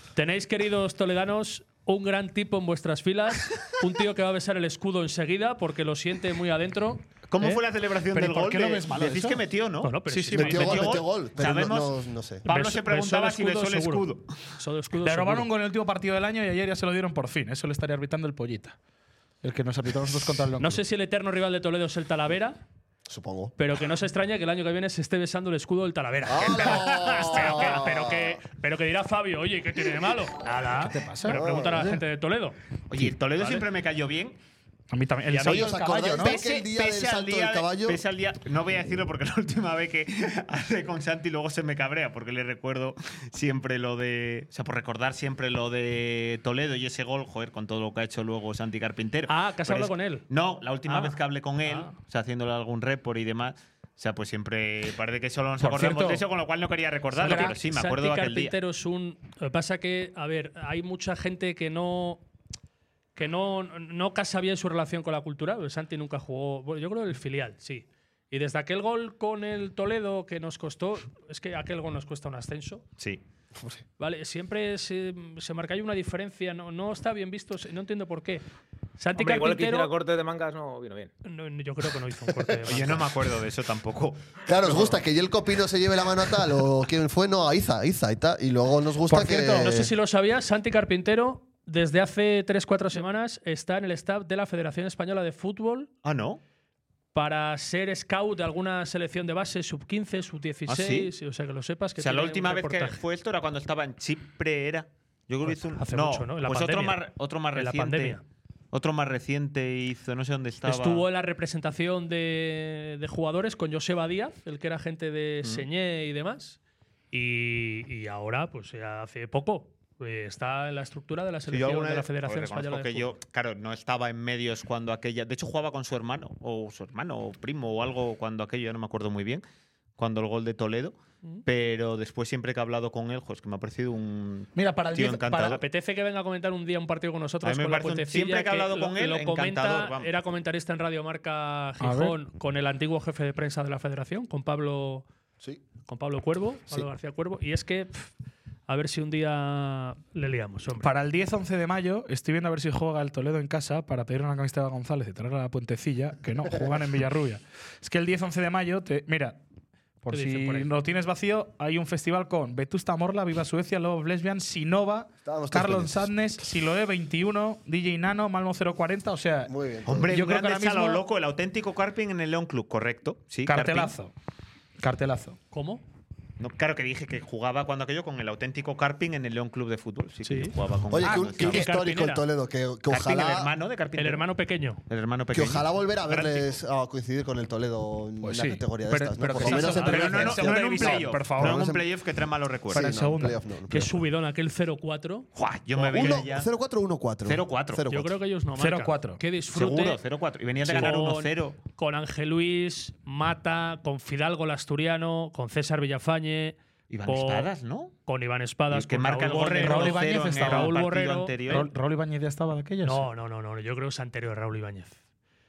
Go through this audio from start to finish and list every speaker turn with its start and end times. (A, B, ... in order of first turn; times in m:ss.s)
0:00.1-0:07.6 A
0:07.3-0:14.5 B
0:08.1-0:09.4 C
0:09.8-0:11.0 A
0:10.1-0:10.9 C
0:10.3-0:12.4 D
0:12.4-0:15.5 A
0:15.0-0:18.8 C
0:19.4-0:20.8 C
0:20.6-0:22.6 A
0:23.1-0:23.5 D
0:23.6-0:32.6 A
0:26.2-0:28.4 D
0:30.8-0:31.4 C
0:31.3-0:32.0 D
0:32.9-0:34.4 B
0:34.9-0:36.4 C
0:35.3-0:35.6 A
0:35.4-0:38.0 D
0:36.2-0:58.5 B
0:49.3-0:50.2 A
0:50.8-0:51.9 A
0:55.6-0:56.2 C
0:57.2-1:02.2 A
0:57.2-0:57.5 C
1:03.1-1:12.8 A
1:14.0-1:18.4 A
1:19.0-1:19.9 A
1:19.2-1:21.1 E
1:21.2-1:23.0 A
1:22.4-1:22.7 D
1:22.6-1:24.2 B
1:24.4-1:29.9 D
1:29.1-1:29.8 C
1:29.4-1:35.9 A
1:36.0-1:36.4 B
1:37.1-1:43.0 A
1:40.7-1:41.1 B
1:42.0-1:48.2 B
1:45.4-1:47.0 A
1:47.5-1:48.2 A
1:48.7-1:51.0 B
1:50.6-1:56.6 A
1:57.1-2:03.2 A
2:01.5-2:09.4 B
2:10.0-2:15.6 B
2:14.5-2:15.6 C
2:15.4-2:25.0 A
2:17.4-2:20.1 B
2:21.8-2:22.2 C
2:25.8-2:28.1 A
2:28.7-2:30.9 A
2:30.8-2:39.4 C
2:40.0-2:49.5 C
2:40.1-2:40.7 A
2:45.2-2:46.1 D
2:49.5-2:50.1 D
2:49.8-2:53.9 B
2:50.1-2:51.0 C
2:53.4-2:54.1 C
2:54.8-2:55.4 C
2:55.5-2:55.8 A
2:56.4-3:01.6 B
3:00.2-3:00.5 A
3:00.9-3:03.5 D
3:01.0-3:01.4 C
3:01.4-3:02.2 A
3:02.9-3:04.2 B
3:04.0-3:04.8 A
3:04.9-3:05.6 B
3:05.3-3:11.8 D
3:06.1-3:06.5 A
3:08.2-3:11.7 C
3:09.4-3:12.9 B
3:12.7-3:14.0 D
3:12.7-3:13.4 C
3:13.7-3:16.2 A
3:15.4-3:16.5 B
3:15.9-3:18.2 D
3:17.2-3:17.8 B
3:17.9-3:20.0 A
3:18.6-3:19.2 C
3:19.5-3:21.6 B
3:20.6-3:27.5 A
3:26.9-3:27.9 B
3:28.1-3:31.7 A
3:28.7-3:31.7 B
3:29.6-3:30.8 C
3:31.5-3:33.1 C
3:32.8-3:35.0 A